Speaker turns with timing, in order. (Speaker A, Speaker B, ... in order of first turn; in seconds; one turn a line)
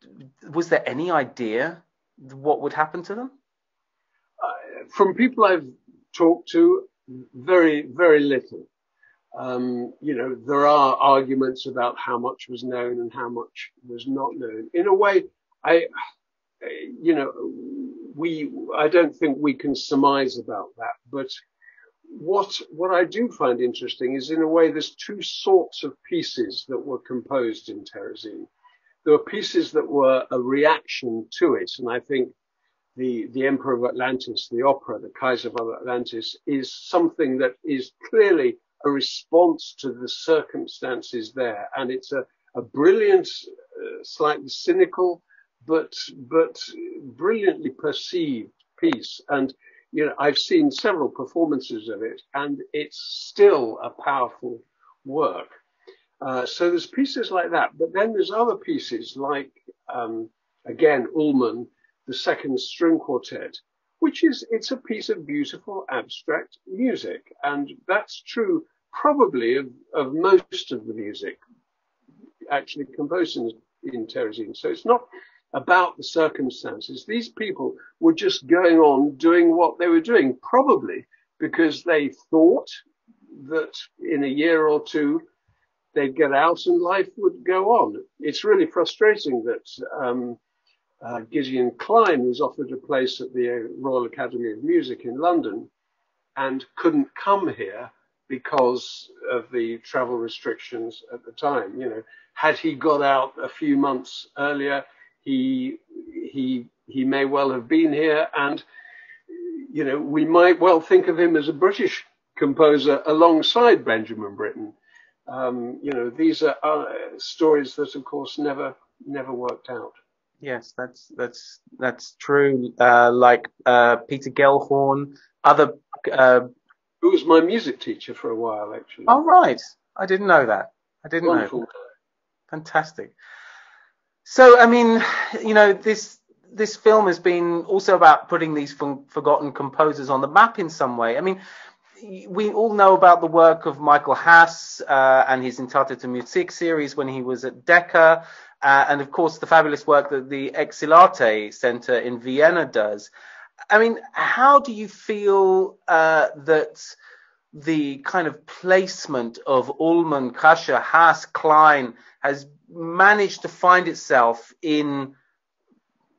Speaker A: 0.4-3.3
Speaker B: 4.4-8.7
Speaker B: 9.3-15.9
Speaker B: 16.6-21.4
Speaker B: 22.1-28.5
Speaker B: 29.0-32.3
Speaker B: 33.0-55.6
Speaker B: 56.2-71.4
Speaker B: 72.5-82.8
Speaker B: 83.3-85.2
Speaker B: 85.9-90.4
Speaker B: 91.0-95.7
Speaker B: 96.4-108.7
Speaker B: 109.3-114.8
Speaker B: 115.3-120.0
Speaker A: 120.4-126.5
Speaker B: 127.0-129.2
Speaker A: 129.1-131.6
Speaker B: 131.3-131.7
Speaker A: 132.5-133.2
Speaker A: 134.2-141.4
Speaker A: 142.0-153.1
Speaker A: 153.7-157.0
Speaker A: 157.5-165.2